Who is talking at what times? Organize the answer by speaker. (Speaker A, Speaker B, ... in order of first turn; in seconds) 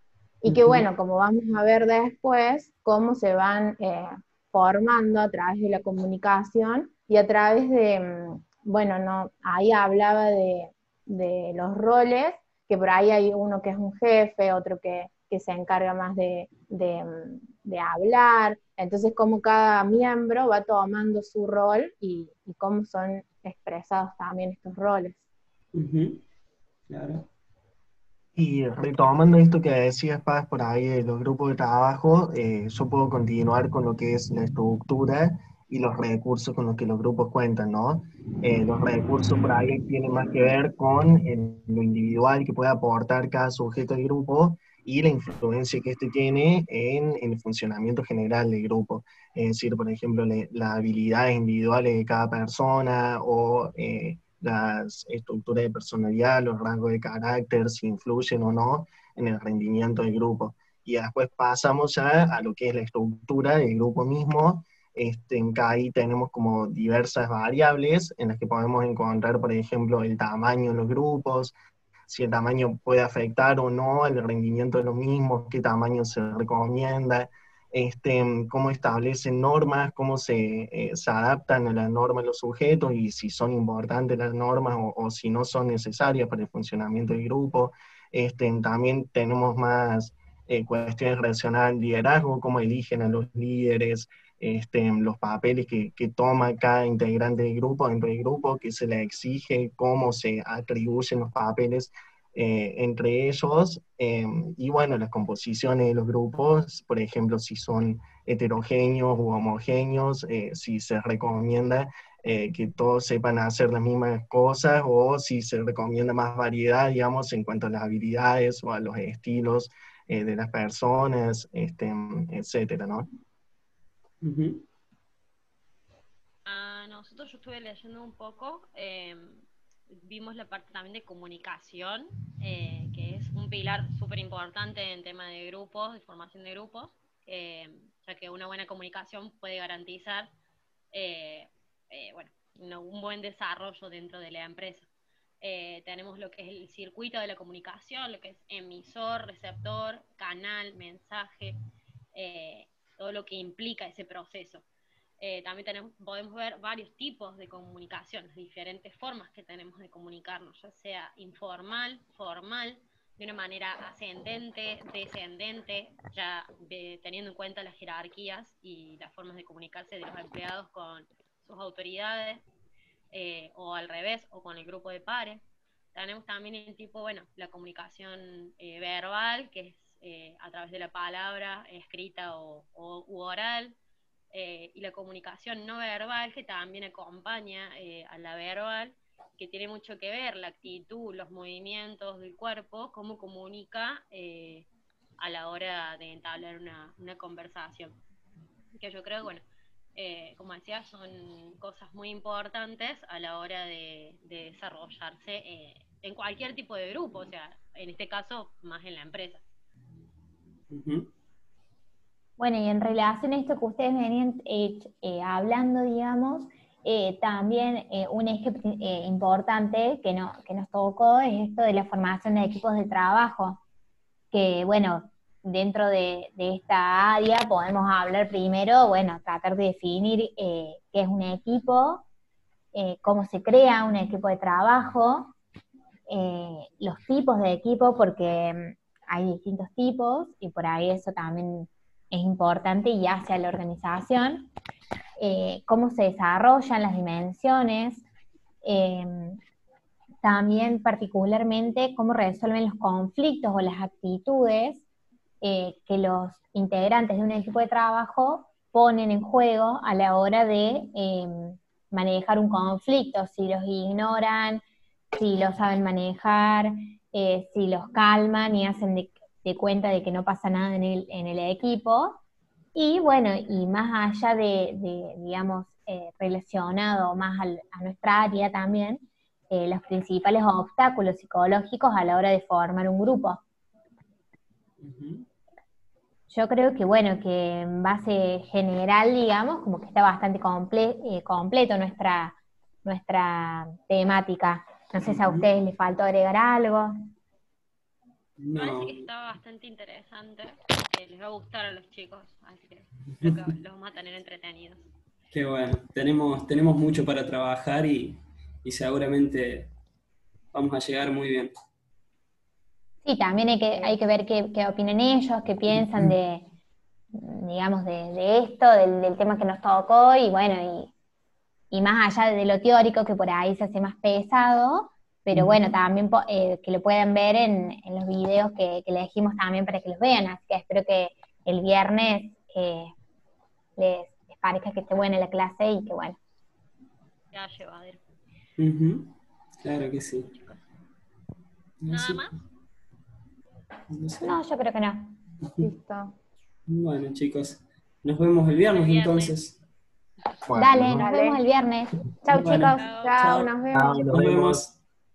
Speaker A: 0.4-25.2, 345.6-346.1, 351.0-351.4, 352.5-354.0
Speaker B: 0.5-0.8, 25.7-26.2, 26.9-27.2, 124.2-124.6, 210.7-211.1, 284.8-285.3, 295.0-295.5, 298.4-299.1, 305.3-309.7, 310.5-311.5, 315.7-316.1, 325.3-325.6, 338.6-340.3, 341.8-342.2, 343.9-344.4, 346.7-349.6, 352.3-353.5, 354.1-354.8
Speaker C: 28.4-71.5, 72.1-123.1, 350.5-351.0, 353.7-354.6
Speaker D: 126.5-140.3, 140.9-144.9, 145.4-151.6, 152.1-154.7, 155.2-172.4, 173.1-175.4, 175.9-183.8, 184.3-194.7, 195.2-198.0, 198.8-199.4, 199.9-209.4, 298.6-304.9, 337.3-338.0, 340.3-340.6, 341.9-342.4, 348.6-349.4, 352.8-353.1
Speaker E: 212.4-223.6, 224.3-232.0, 232.7-235.3, 236.1-244.5, 245.2-248.0, 248.6-249.4, 250.2-254.8, 255.4-264.6, 265.1-272.2, 272.7-283.4, 286.3-296.9, 313.0-316.5, 317.1-320.9, 321.7-332.9, 333.8-336.2, 344.2-345.1, 350.6-352.6